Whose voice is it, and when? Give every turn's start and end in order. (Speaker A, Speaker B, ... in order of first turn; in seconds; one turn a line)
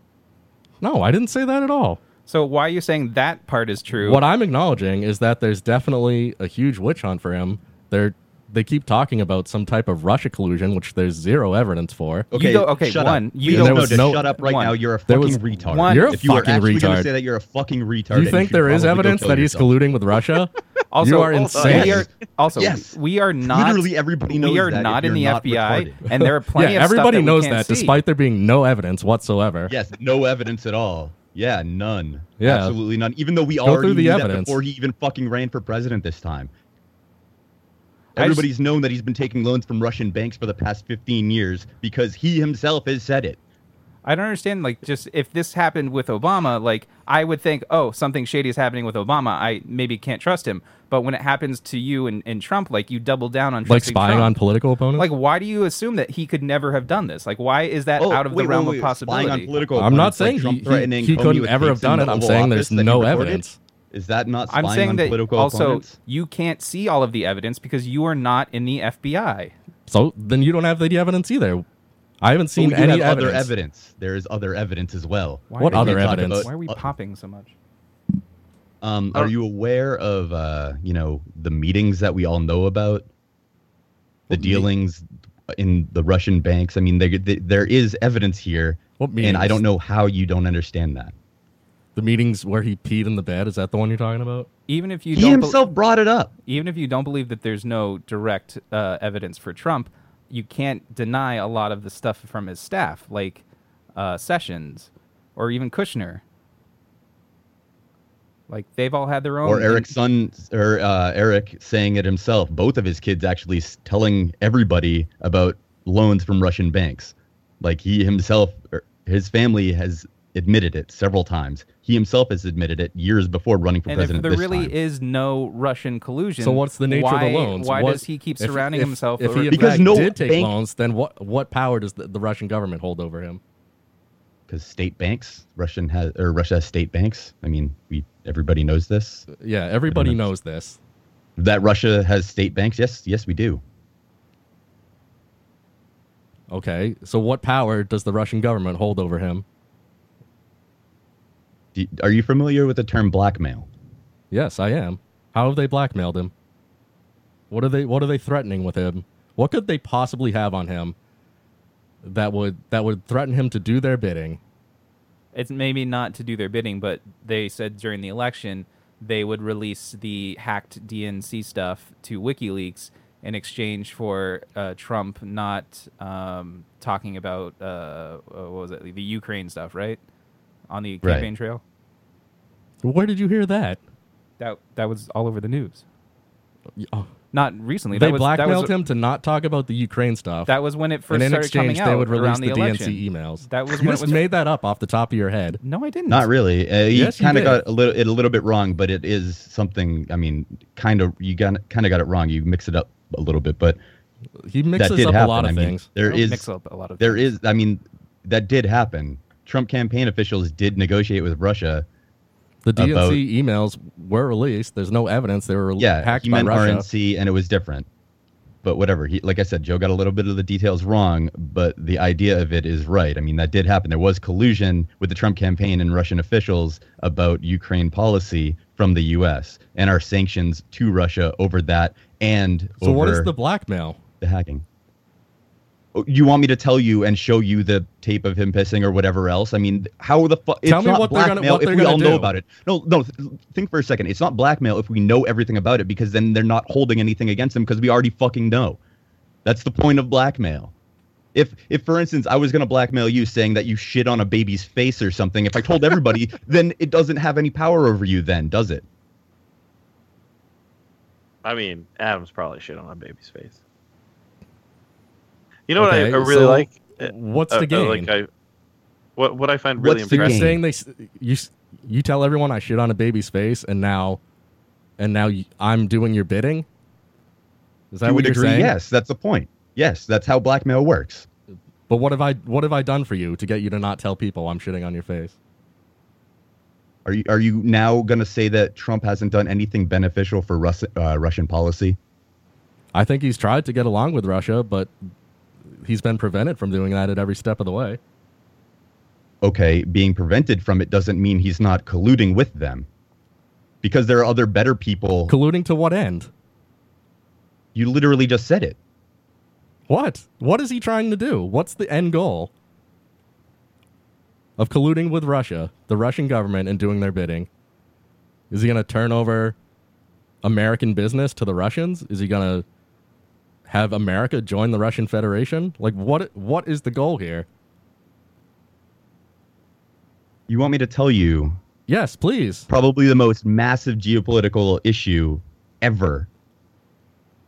Speaker A: 0.8-2.0
Speaker B: 2.3-4.2
Speaker A: 4.0-12.3
Speaker C: 12.3-19.7
Speaker B: 12.3-14.8
Speaker A: 13.5-14.3
Speaker A: 15.1-17.1
Speaker B: 15.7-16.3
Speaker A: 18.1-22.1
Speaker B: 20.9-28.0
Speaker D: 21.3-21.9
Speaker C: 21.6-26.0
Speaker A: 26.1-29.7
Speaker C: 29.7-36.5
Speaker A: 32.4-32.8
Speaker A: 33.6-34.6
Speaker C: 38.1-43.4
Speaker B: 38.2-38.5
Speaker B: 44.0-54.3
Speaker A: 53.6-55.1
Speaker B: 55.0-59.6
Speaker C: 58.0-66.0
Speaker A: 59.8-63.6
Speaker B: 64.5-69.5
Speaker A: 69.9-71.6
Speaker A: 72.2-73.5
Speaker C: 72.5-76.8
Speaker B: 75.5-77.5
Speaker A: 75.6-76.5
Speaker C: 78.8-83.1
Speaker A: 84.3-84.7
Speaker C: 84.3-91.1
Speaker A: 89.0-89.6
Speaker A: 92.0-94.5
Speaker B: 94.7-95.6
Speaker C: 95.1-96.3
Speaker B: 96.5-103.4
Speaker B: 104.0-106.2
Speaker B: 108.5-109.9
Speaker C: 109.4-124.7
Speaker B: 123.9-130.1
Speaker A: 126.4-133.4
Speaker C: 129.5-130.5
Speaker C: 134.5-139.3
Speaker A: 139.3-140.8
Speaker C: 139.9-140.3
Speaker C: 141.4-143.6
Speaker A: 146.5-149.4
Speaker C: 151.7-153.7
Speaker A: 154.3-156.3
Speaker A: 157.5-160.9
Speaker A: 162.0-164.4
Speaker B: 165.3-180.0
Speaker B: 180.7-181.6
Speaker C: 181.0-181.3
Speaker A: 182.8-183.8
Speaker B: 184.4-185.8
Speaker A: 186.7-187.1
Speaker B: 187.3-188.7
Speaker A: 187.9-190.5
Speaker B: 190.4-194.3
Speaker A: 191.1-195.6
Speaker B: 195.6-196.3
Speaker C: 196.1-203.8
Speaker A: 196.9-197.6
Speaker A: 204.4-205.9
Speaker C: 204.8-206.5
Speaker B: 206.0-207.3
Speaker C: 207.0-211.8
Speaker A: 212.6-216.9
Speaker C: 212.8-213.2
Speaker C: 215.8-217.9
Speaker C: 218.6-233.3
Speaker A: 232.8-234.0
Speaker C: 234.2-234.6
Speaker C: 235.9-248.8
Speaker A: 240.6-242.3
Speaker C: 249.4-250.7
Speaker C: 251.3-258.8
Speaker D: 261.4-263.6
Speaker D: 265.7-268.3
Speaker A: 265.8-268.1
Speaker D: 269.2-270.4
Speaker C: 269.8-270.6
Speaker A: 270.1-274.2
Speaker A: 275.0-276.7
Speaker A: 277.9-278.7
Speaker C: 278.0-281.3
Speaker A: 281.9-285.4
Speaker C: 287.0-292.0
Speaker A: 292.9-294.9
Speaker A: 295.7-298.0
Speaker C: 299.4-302.9
Speaker C: 303.8-305.3
Speaker A: 305.3-306.3
Speaker C: 307.7-308.8
Speaker A: 309.9-312.5
Speaker A: 314.6-317.5
Speaker A: 318.5-319.6
Speaker A: 320.4-322.6
Speaker A: 323.6-327.5
Speaker C: 330.5-331.6
Speaker A: 331.9-332.7
Speaker C: 332.7-336.3